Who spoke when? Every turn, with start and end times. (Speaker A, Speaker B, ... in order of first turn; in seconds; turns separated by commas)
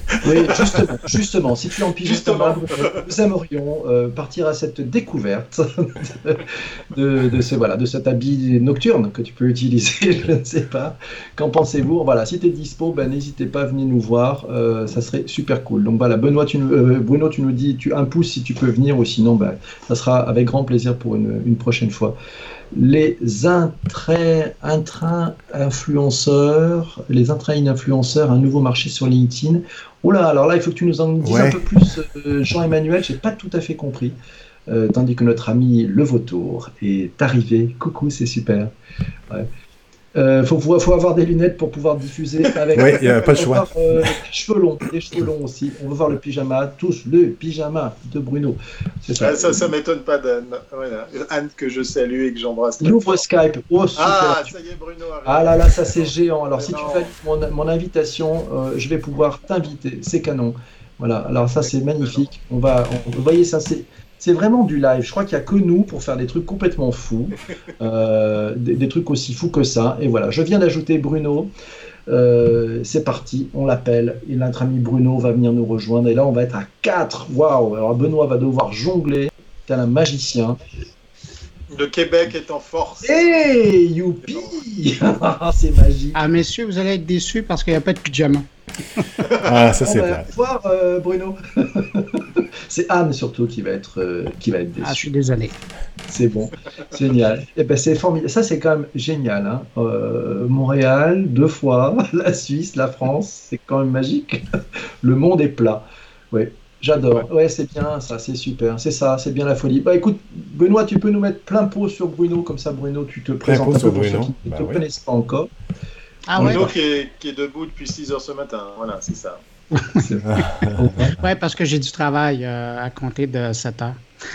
Speaker A: 0.2-0.9, Speaker B: 0.2-22.2, Speaker A: 2.0-3.1, Speaker B: 22.7-34.2, Speaker C: 31.2-31.6, Speaker B: 34.7-38.7, Speaker B: 40.1-49.7, Speaker C: 42.8-43.7, Speaker A: 49.2-53.2, Speaker B: 52.8-54.5, Speaker A: 54.0-57.1, Speaker B: 55.2-71.5, Speaker A: 62.0-62.3, Speaker B: 72.1-80.6, Speaker A: 81.7-83.3, Speaker B: 83.0-86.2, Speaker A: 84.3-84.6, Speaker D: 86.2-89.2, Speaker C: 89.3-90.3, Speaker B: 89.8-95.1, Speaker D: 94.8-95.5, Speaker B: 96.1-104.5, Speaker B: 105.0-115.5, Speaker C: 113.4-114.8, Speaker D: 116.3-116.7, Speaker A: 116.4-119.4, Speaker B: 116.4-116.8, Speaker D: 119.7-120.4, Speaker B: 120.0-121.2, Speaker C: 120.3-120.8, Speaker D: 121.1-124.0